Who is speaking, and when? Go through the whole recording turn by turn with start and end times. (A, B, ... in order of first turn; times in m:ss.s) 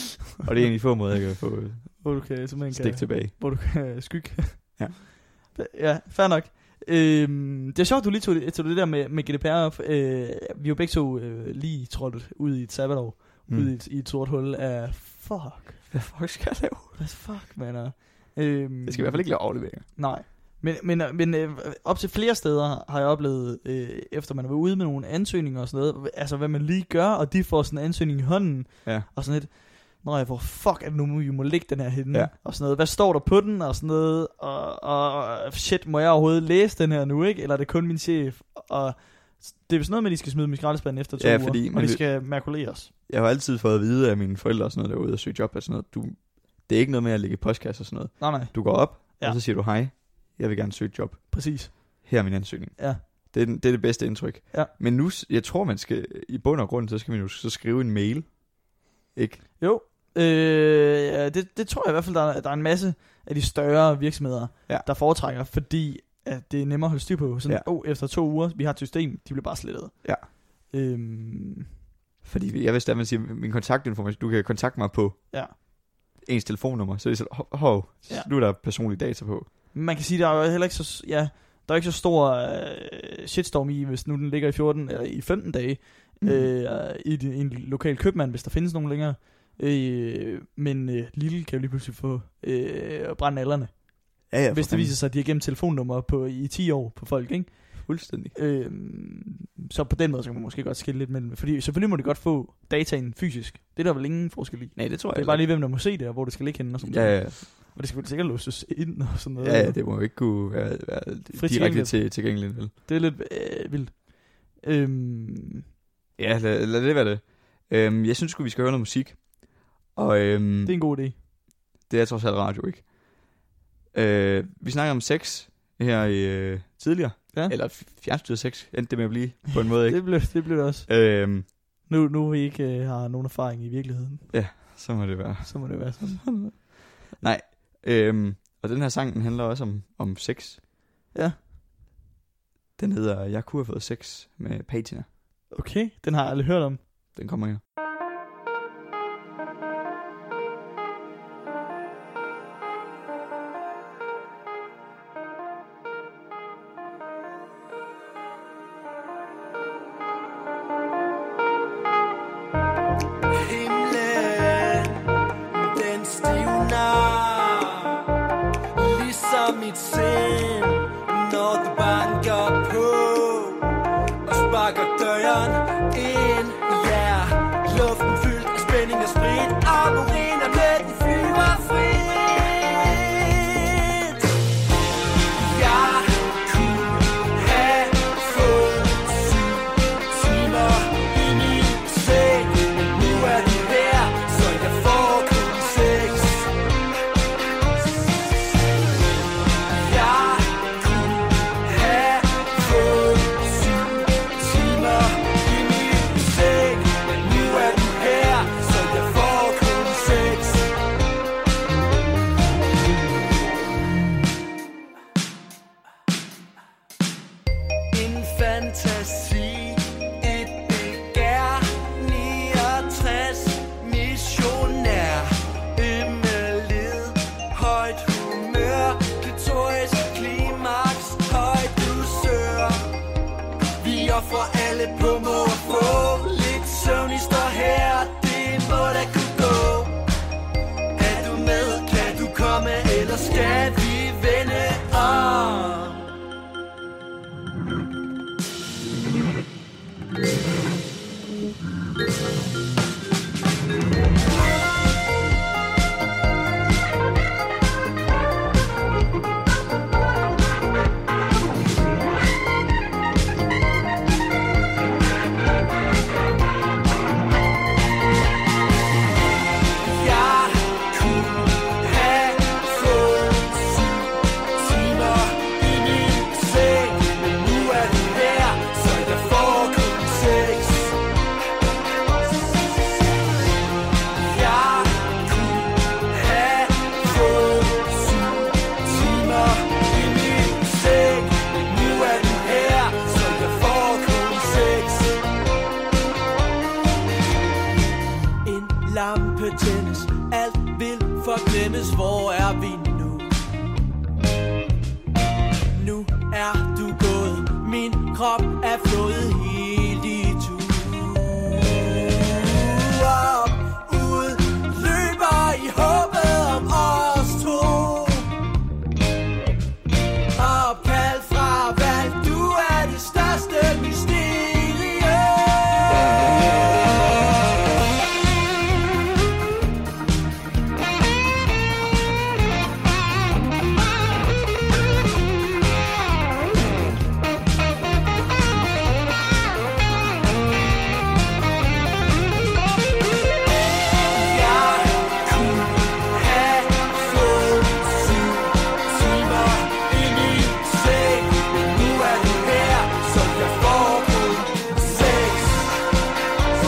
0:00.4-0:03.3 A
0:02.0-0:15.9 B
0:15.9-0:17.0 A
0:17.0-0:42.9 B
0:18.9-0:19.9 A
0:41.2-0:42.2 A
0:43.1-0:59.5 A
0:48.2-0:49.4 B
0:51.3-0:52.1 B
0:59.6-1:11.7 B
1:12.2-1:19.5 A
1:19.7-1:49.8 B
1:26.2-1:26.5 A
1:34.3-1:35.0 A
1:37.8-1:38.4 A
1:44.8-1:45.5 A
1:46.8-1:47.4 A
1:49.4-1:52.7 A
1:51.3-1:55.6 B
1:56.2-2:00.8 A
2:00.6-2:01.2 B
2:01.8-2:03.4 A
2:03.9-2:11.5 A
2:09.9-2:10.9 B
2:11.5-2:14.8 B
2:14.3-2:20.6 A
2:15.4-2:16.6 B
2:22.8-2:25.1 A
2:25.5-2:26.8 B
2:27.1-2:27.6 A
2:43.4-2:48.0 C
2:48.8-2:53.7 C
2:54.2-3:04.2 C
3:05.3-3:16.5 C
3:19.8-3:30.7 C
3:37.9-3:52.9 C
3:53.8-4:00.0 C
4:01.0-4:06.1 C
4:29.8-4:41.0 C
4:44.2-4:55.2 C
4:58.4-5:03.4 C
5:05.7-5:18.3 C
5:20.4-5:26.3 C
5:44.1-5:55.7 C